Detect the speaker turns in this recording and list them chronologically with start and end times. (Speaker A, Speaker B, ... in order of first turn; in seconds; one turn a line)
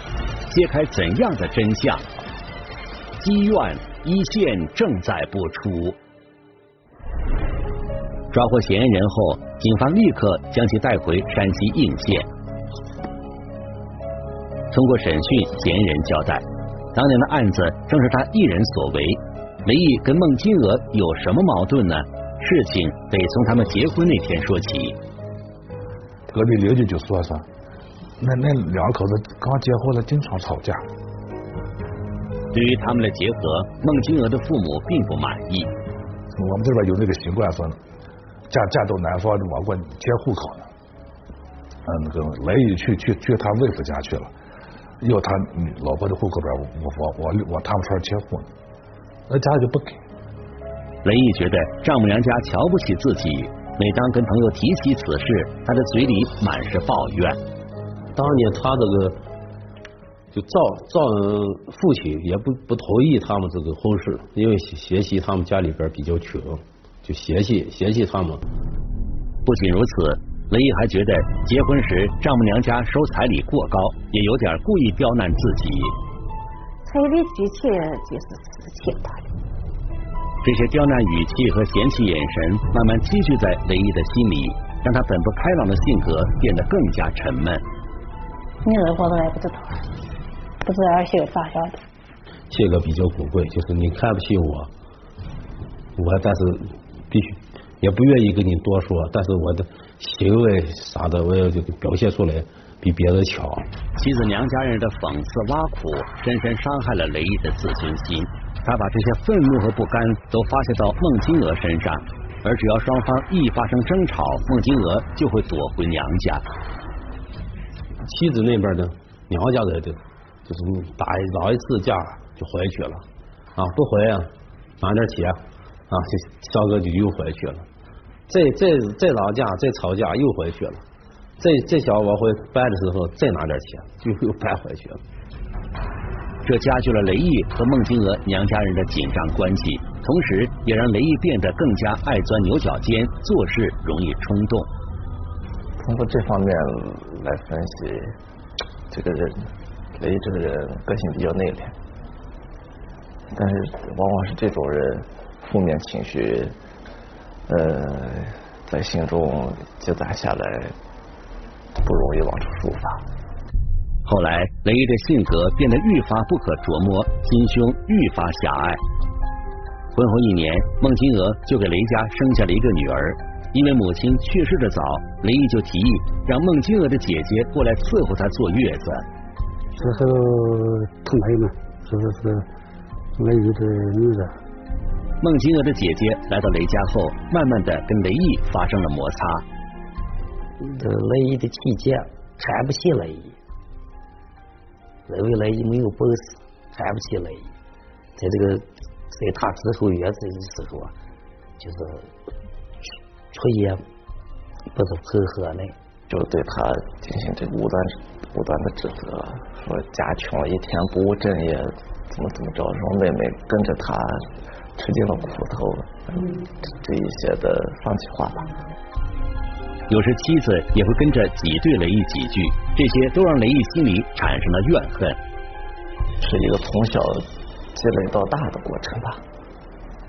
Speaker A: 0.5-2.0
Speaker A: 3.2-6.0
Speaker A: 8.3-12.3
Speaker A: 14.7-25.0
Speaker B: 26.3-27.5
Speaker B: 28.2-30.9
Speaker A: 32.5-35.7
Speaker B: 36.3-37.8
Speaker B: 38.5-40.7
Speaker B: 41.8-44.3
Speaker B: 45.0-48.5
Speaker B: 49.3-50.0
Speaker A: 51.0-57.4
Speaker C: 58.1-59.2
Speaker C: 60.3-68.4
Speaker A: 69.4-75.9
Speaker D: 76.8-79.3
Speaker A: 80.4-87.6
Speaker D: 88.6-89.8
Speaker D: 90.6-91.8
Speaker C: 92.5-94.7
Speaker C: 96.0-103.7
Speaker A: 104.0-116.5
Speaker C: 118.0-123.0
Speaker C: 123.5-127.7
Speaker C: 128.3-130.8
Speaker C: 131.4-135.0
Speaker A: 136.4-144.7
Speaker E: 145.8-148.2
Speaker E: 148.9-151.8
Speaker E: 153.3-156.6
Speaker E: 157.5-160.7
Speaker E: 161.8-163.1
Speaker A: 164.0-168.8
Speaker A: 169.9-179.1
Speaker F: 179.7-182.5
Speaker F: 183.2-184.3
Speaker A: 185.2-189.4
Speaker G: 190.7-193.4
Speaker G: 195.1-197.5
Speaker G: 198.2-200.9
Speaker G: 201.6-202.2
Speaker G: 203.3-203.8
Speaker G: 204.7-205.8
Speaker E: 206.1-218.5
Speaker A: 219.9-225.2
Speaker E: 226.2-229.2